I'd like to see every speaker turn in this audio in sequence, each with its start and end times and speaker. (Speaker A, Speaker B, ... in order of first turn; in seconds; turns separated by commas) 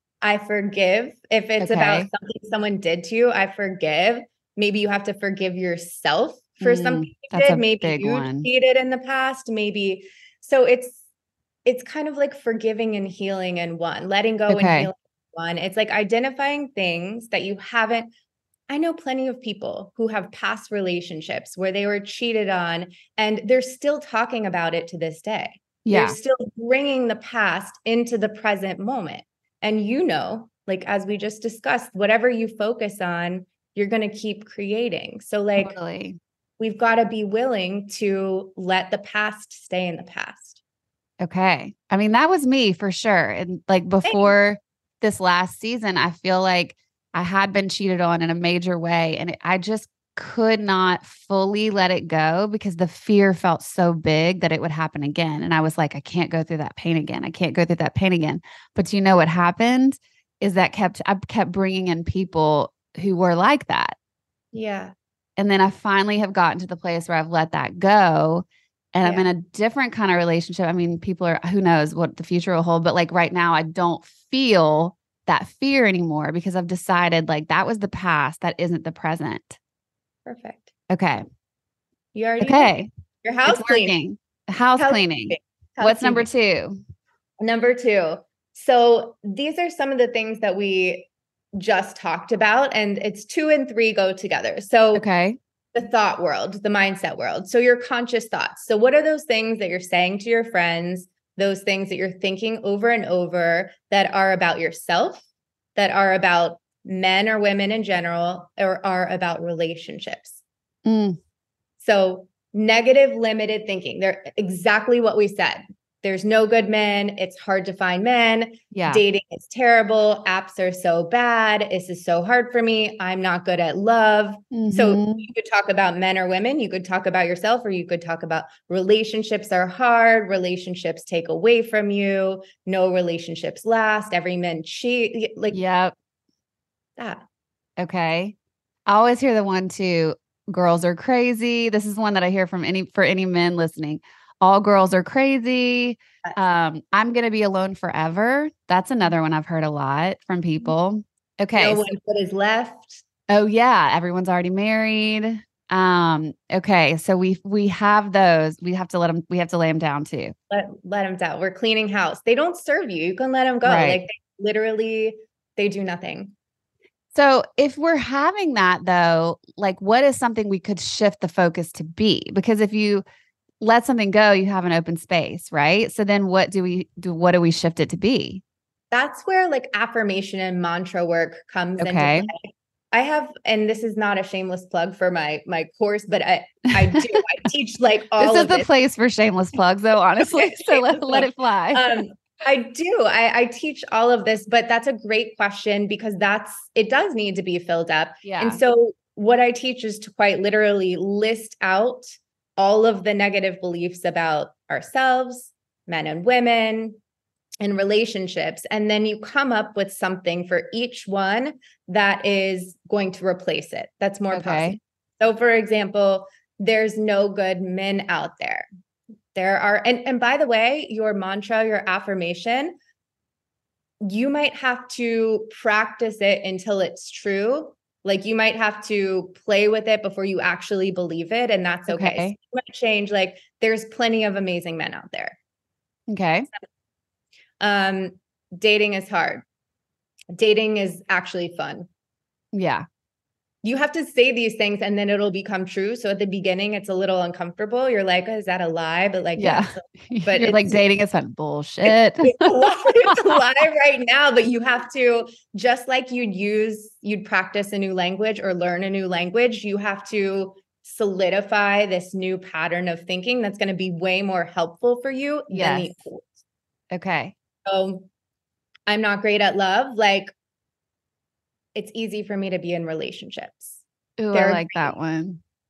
Speaker A: 0.2-11.0, Speaker B: 1.6-2.1, Speaker B: 6.6-8.5, Speaker A: 11.6-18.1, Speaker B: 14.5-14.9, Speaker A: 18.7-35.8, Speaker B: 25.8-26.2, Speaker B: 35.6-36.2, Speaker A: 36.6-40.6, Speaker B: 41.2-63.9, Speaker A: 44.0-44.3, Speaker A: 64.5-64.9, Speaker B: 65.4-79.6, Speaker A: 80.2-80.7, Speaker B: 80.9-81.2, Speaker A: 82.1-82.7, Speaker B: 82.4-82.9, Speaker A: 83.2-84.0, Speaker B: 83.5-86.8, Speaker A: 84.8-86.3, Speaker A: 87.4-95.0, Speaker B: 94.9-95.4, Speaker A: 95.7-105.2, Speaker A: 105.8-110.4, Speaker B: 110.8-111.2, Speaker A: 111.8-135.6, Speaker B: 118.7-119.0, Speaker B: 124.5-125.3, Speaker B: 135.5-135.9, Speaker A: 137.0-137.2, Speaker B: 137.8-138.3, Speaker B: 138.9-151.8, Speaker A: 151.5-153.0, Speaker B: 153.3-160.3, Speaker A: 160.5-166.3, Speaker B: 163.6-164.0, Speaker B: 167.1-173.0, Speaker B: 173.6-178.4, Speaker A: 178.9-188.7, Speaker B: 181.8-182.3, Speaker B: 186.8-187.1, Speaker B: 188.2-191.8, Speaker A: 190.2-207.0, Speaker B: 198.2-198.6, Speaker A: 207.6-218.7, Speaker B: 214.3-214.8, Speaker A: 219.3-222.8, Speaker A: 224.0-235.4, Speaker B: 231.9-232.3, Speaker B: 236.1-236.5, Speaker A: 237.6-239.4, Speaker A: 240.3-241.9, Speaker B: 242.5-242.8, Speaker A: 243.6-250.8, Speaker B: 249.4-253.3, Speaker A: 251.9-266.4, Speaker B: 265.5-266.0, Speaker B: 266.9-267.3, Speaker A: 267.6-268.1, Speaker A: 268.9-270.3, Speaker A: 271.7-273.8, Speaker B: 274.2-275.4, Speaker A: 274.3-274.9